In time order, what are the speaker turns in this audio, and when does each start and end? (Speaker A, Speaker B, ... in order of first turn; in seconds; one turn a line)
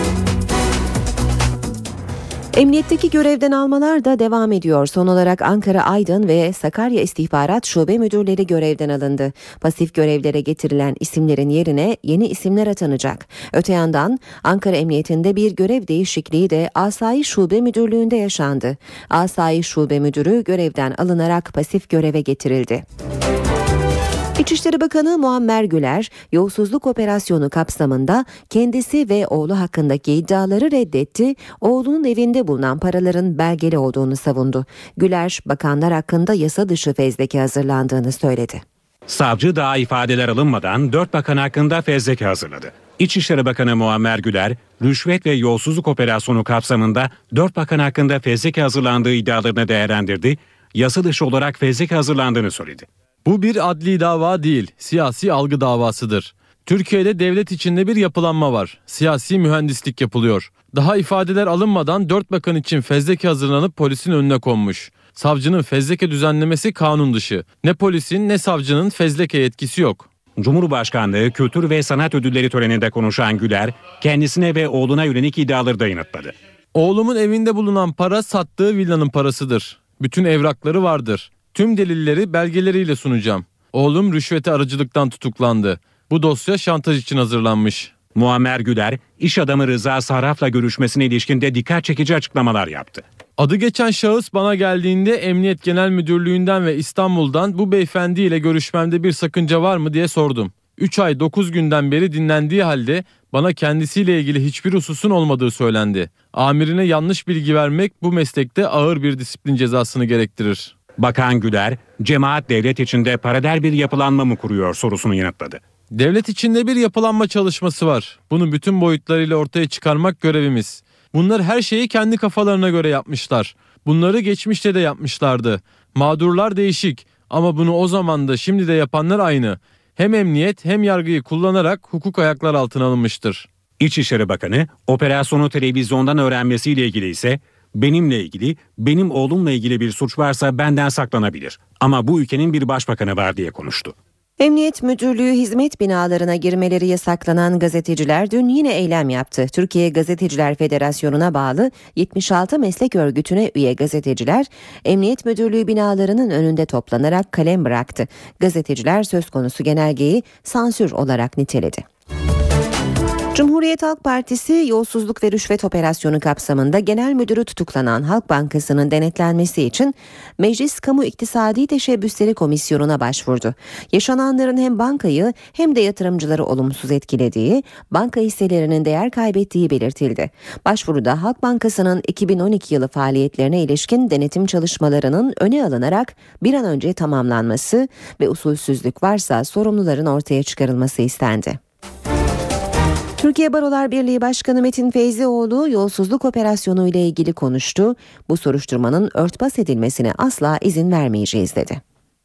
Speaker A: 2.5-22.9
Speaker A: 24.4-38.6
Speaker B: 39.1-52.9
Speaker C: 53.2-70.1
Speaker B: 70.4-76.3
Speaker C: 76.8-87.9
Speaker B: 88.2-93.0
Speaker C: 93.4-110.7
Speaker B: 111.0-115.6
Speaker C: 115.9-133.5
Speaker B: 133.8-143.9
Speaker A: 144.4-161.8
Speaker A: 163.3-191.6
Speaker A: 193.2-201.8